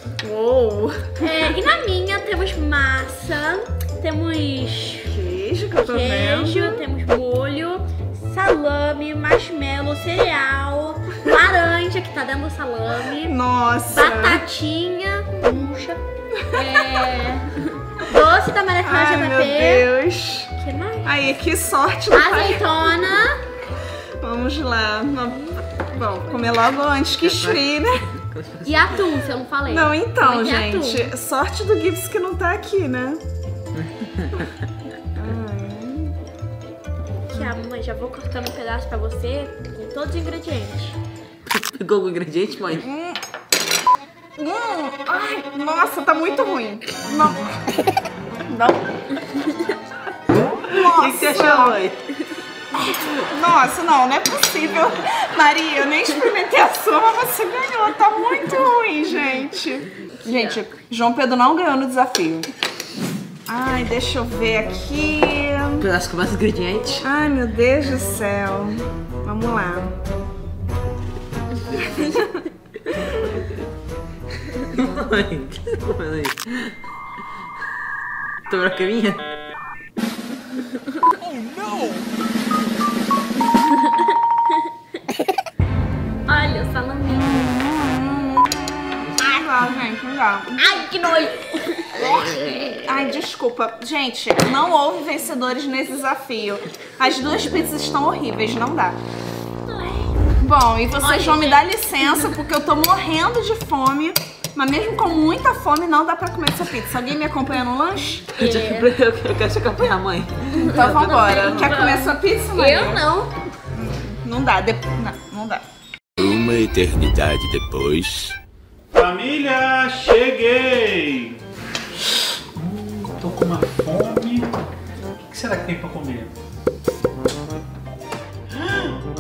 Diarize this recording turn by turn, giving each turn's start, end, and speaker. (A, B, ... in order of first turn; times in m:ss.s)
0:00.2-0:01.1 A
0:01.2-0:05.1 B
0:05.1-0:06.8 A
0:05.8-0:16.0 B
0:13.2-0:14.4 A
0:16.4-0:17.2 A
0:16.5-0:19.9 B
0:18.8-0:20.5 A
0:20.6-0:21.1 B
0:21.0-0:22.8 A
0:22.1-0:23.4 B
0:24.2-0:28.1 A
0:25.5-0:26.6 B
0:27.2-0:29.0 C
0:28.6-0:31.1 B
0:29.7-0:33.2 A
0:33.7-0:34.5 C
0:35.2-0:36.1 A
0:37.3-0:41.0 B
0:41.5-0:42.9 C
0:42.8-0:43.2 A
0:44.4-0:47.5 A
0:48.4-0:48.9 A
0:50.7-0:51.8 A
0:50.8-0:52.0 C
0:52.7-1:02.5 A
1:00.2-1:00.6 B
1:03.5-1:05.8 A
1:05.8-1:07.1 C
1:07.0-1:10.0 A
1:11.7-1:12.4 A
1:14.6-1:16.8 C
1:18.5-1:19.2 C
1:23.7-1:24.1 B
1:26.3-1:27.8 B
1:27.8-1:30.9 A
1:30.6-1:32.9 B
1:32.1-1:39.0 A
1:39.7-1:40.2 B
1:40.4-1:48.3 A
1:41.0-1:42.3 B
1:48.4-1:48.9 B
1:48.4-1:51.9 C
1:50.6-1:53.1 A
1:50.6-1:53.3 B
1:53.7-1:55.6 A
1:56.2-1:58.3 D
1:58.9-2:01.4 E
2:02.6-2:04.5 E
2:05.3-2:06.4 E
2:08.6-2:09.0 E